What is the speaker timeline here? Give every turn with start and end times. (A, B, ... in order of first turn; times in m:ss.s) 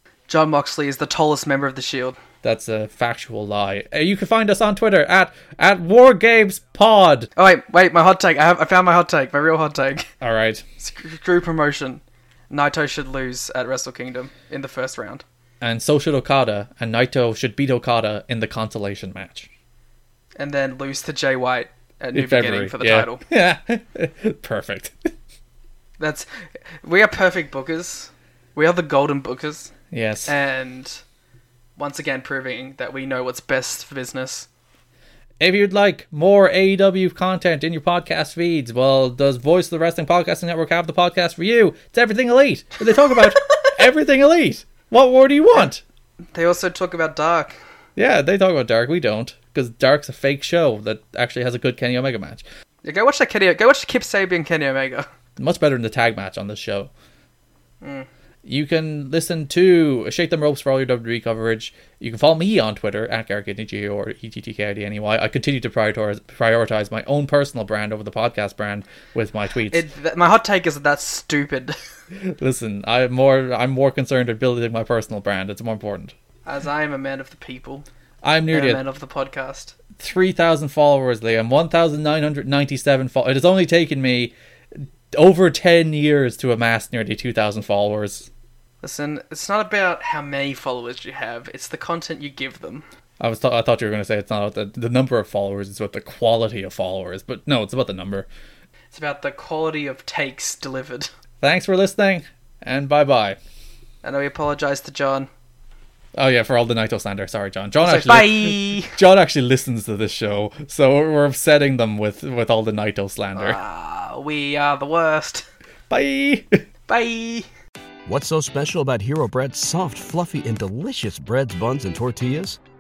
0:00.3-0:02.2 A
0:02.4-0:07.3 B
0:07.4-0:10.1 A
0:10.2-0:10.6 B
0:10.8-0:15.2 A
0:15.6-0:19.5 B
0:20.4-0:23.2 A
0:22.1-0:25.1 B
0:26.0-0:26.3 A
0:26.8-0:29.7 A
0:29.9-0:30.3 B
0:30.3-0:31.0 A
0:31.8-0:34.5 A
0:35.4-0:45.8 B
0:43.2-0:43.7 A
0:46.3-0:47.6 A
0:48.0-0:52.4 B
0:52.8-0:55.1 A
0:55.4-0:56.9 B
0:57.8-0:58.1 A
0:58.4-1:09.8 B
1:09.7-1:11.8 A
1:12.1-1:16.1 B
1:16.4-1:17.9 A
1:18.2-1:18.8 B
1:18.5-1:19.8 A
1:20.0-1:28.3 B
1:28.8-1:32.9 A
1:33.2-1:38.3 B
1:38.9-1:41.1 A
1:41.4-1:43.4 B
1:44.0-1:45.3 A
1:46.2-1:53.6 B
1:47.8-1:49.0 A
1:53.4-1:55.5 A
1:55.9-1:56.6 B
1:56.9-1:57.5 A
1:58.1-2:02.6 C